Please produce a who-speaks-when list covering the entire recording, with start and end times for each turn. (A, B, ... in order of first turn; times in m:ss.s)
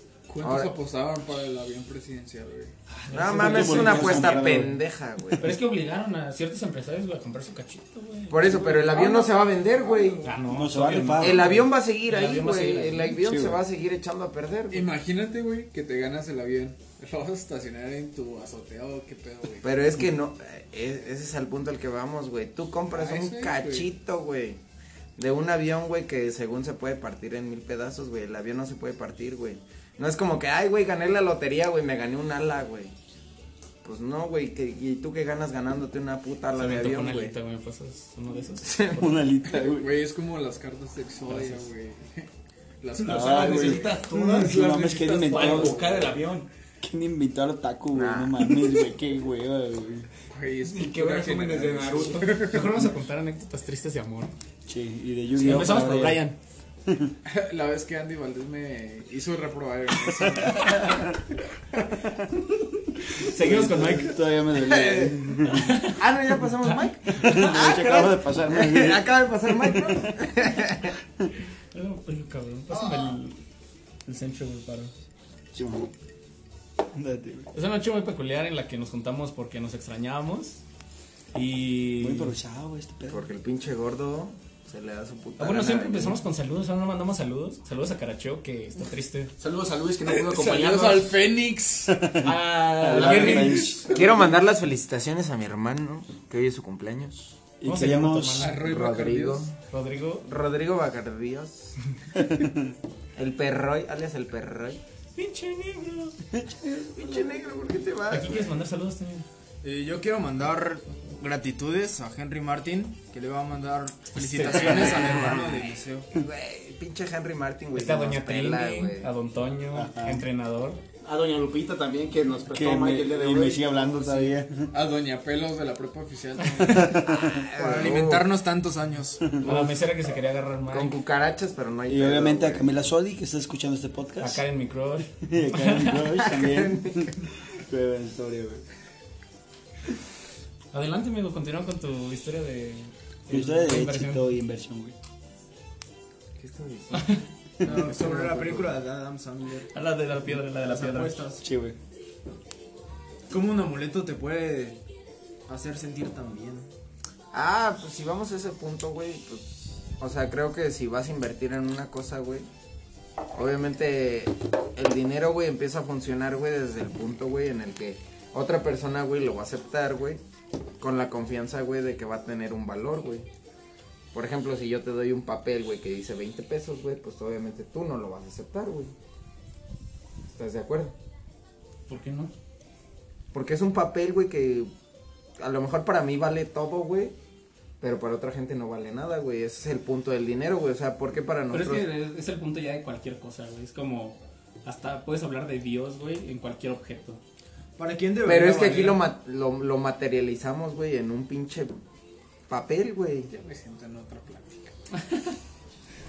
0:00.3-0:02.8 A
0:00.4-0:00.7 B
0:02.9-0:04.7 C
0:03.1-0:05.5 B
0:03.2-0:05.5 D
0:05.4-0:08.7 C
0:08.3-0:10.3 B
0:08.4-0:10.3 A
0:10.2-0:13.2 C
0:10.5-0:11.7 D
0:11.2-0:14.9 B
0:13.2-0:13.6 D
0:14.7-0:19.7 A
0:19.6-0:24.6 B
0:22.9-0:23.9 A
0:25.2-0:32.9 B
0:33.8-0:37.4 B
0:36.6-0:39.0 C
0:38.6-0:39.1 B
0:38.9-0:39.9 D
0:39.5-0:42.3 A
0:41.3-0:41.7 C
0:42.8-0:44.0 A
0:43.0-0:45.8 D
0:43.0-0:46.5 E
0:45.3-0:45.9 A
0:45.3-0:46.3 C
0:46.8-0:50.1 D
0:47.9-0:48.4 B
0:50.3-0:52.7 A
0:50.7-0:52.4 E
0:52.4-0:54.3 C
0:54.7-0:56.2 D
0:55.4-0:56.4 C
0:56.9-0:57.1 D
0:57.2-1:01.2 A
1:00.4-1:01.0 D
1:03.2-1:04.2 C
1:03.2-1:05.8 D
1:04.6-1:05.2 A
1:05.5-1:06.0 C
1:05.8-1:11.0 B
1:07.1-1:10.3 D
1:11.7-1:13.4 C
1:14.1-1:14.9 C
1:15.5-1:15.9 D
1:16.9-1:17.5 D
1:17.5-1:20.6 C
1:21.3-1:22.4 C
1:22.0-1:23.3 D
1:23.1-1:26.2 B
1:25.4-1:29.3 C
1:29.4-1:31.1 E
1:30.0-1:32.1 A
1:31.9-1:34.0 D
1:32.2-1:33.8 C
1:32.9-1:34.2 A
1:33.9-1:37.3 B
1:37.6-1:38.6 D
1:37.6-1:38.5 C
1:38.4-1:39.5 A
1:38.6-1:39.5 B
1:39.7-1:40.3 C
1:40.2-1:41.8 B
1:42.2-1:42.7 D
1:43.2-1:44.8 B
1:45.2-1:46.2 C
1:46.3-1:47.4 D
1:46.9-1:48.6 B
1:48.1-1:49.2 C
1:49.6-1:56.1 F
1:54.1-1:55.5 C
1:54.6-1:55.4 B
1:56.1-1:59.1 B
1:57.8-2:00.8 C
1:59.7-2:00.2 D
2:01.0-2:04.3 E
2:02.5-2:04.7 D
2:04.7-2:07.0 A
2:06.6-2:07.4 D
2:07.1-2:08.3 B
2:07.5-2:09.3 F
2:09.3-2:09.7 D
2:09.4-2:11.0 C
2:10.7-2:12.7 B
2:11.9-2:14.4 D
2:14.2-2:16.0 C
2:15.2-2:18.6 D
2:16.0-2:17.2 B
2:20.7-2:24.3 C
2:23.3-2:25.0 D
2:26.4-2:28.8 B
2:27.6-2:29.7 F
2:29.7-2:31.2 C
2:30.5-2:31.4 F
2:31.4-2:31.8 D
2:33.3-2:34.8 F
2:35.5-2:36.7 F
2:37.3-2:42.5 B
2:43.4-2:50.2 B
2:50.8-2:53.3 B
2:54.1-2:58.9 B
3:00.3-3:00.9 B
3:01.9-3:02.3 C
3:03.3-3:04.7 B
3:05.4-3:07.2 B
3:07.8-3:11.9 B
3:11.5-3:17.2 C
3:17.8-3:19.1 F
3:18.2-3:21.8 B
3:22.5-3:23.3 B
3:23.3-3:24.7 A
3:24.9-3:25.4 C